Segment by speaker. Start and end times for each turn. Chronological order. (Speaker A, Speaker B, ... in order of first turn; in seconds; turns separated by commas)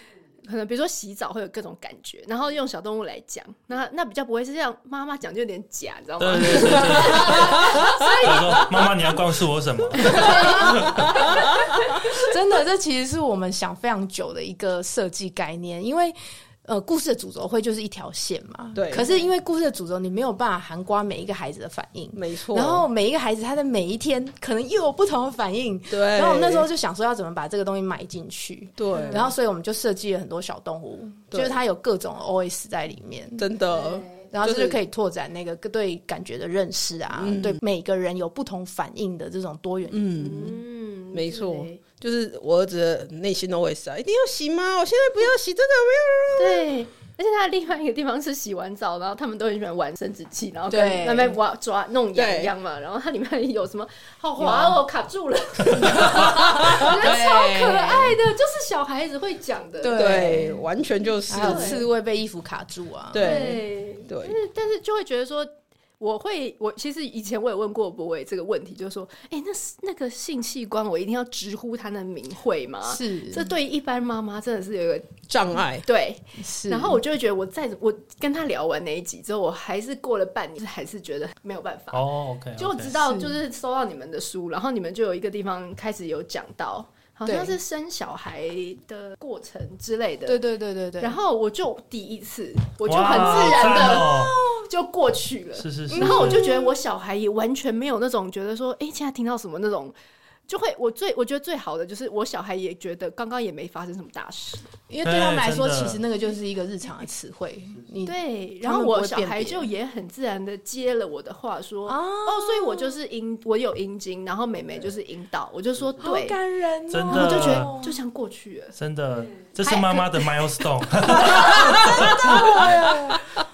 Speaker A: 0.4-8.9, Speaker B: 6.2-11.2, Speaker C: 7.6-7.9, Speaker D: 10.0-33.6, Speaker A: 10.0-10.8, Speaker C: 10.8-11.4, Speaker C: 18.7-19.2, Speaker C: 22.1-22.9, Speaker C: 25.9-26.7, Speaker C: 28.8-29.3, Speaker C: 31.3-31.6, Speaker C: 33.4-34.8, Speaker A: 33.8-34.2, Speaker D: 34.2-40.3, Speaker C: 37.1-37.6, Speaker C: 39.9-40.6, Speaker A: 40.2-41.8, Speaker C: 41.1-46.7, Speaker A: 46.4-60.3, Speaker D: 50.7-51.4, Speaker C: 52.1-52.5, Speaker D: 54.4-54.7, Speaker D: 55.8-58.1, Speaker C: 55.8-58.0, Speaker D: 59.8-60.6, Speaker C: 59.9-61.8, Speaker D: 61.3-63.6, Speaker A: 61.3-61.8, Speaker C: 63.1-64.4, Speaker A: 63.1-75.1, Speaker D: 72.9-73.5, Speaker C: 75.3-75.8, Speaker A: 75.8-82.0, Speaker D: 76.4-77.0, Speaker B: 81.9-83.0, Speaker A: 82.6-90.4, Speaker D: 83.0-83.3, Speaker D: 87.2-87.6, Speaker D: 90.3-91.1, Speaker A: 91.0-99.9, Speaker B: 92.8-94.3, Speaker D: 93.1-94.6, Speaker B: 95.6-96.4, Speaker D: 95.9-96.7, Speaker A: 100.5-104.7, Speaker D: 104.9-109.7, Speaker B: 105.0-106.0, Speaker A: 108.0-116.4, Speaker D: 111.9-112.9, Speaker D: 116.0-118.0, Speaker B: 116.9-117.7, Speaker A: 117.1-118.7, Speaker B: 118.7-122.7, Speaker A: 119.6-120.2, Speaker A: 121.1-122.7, Speaker D: 121.1-123.2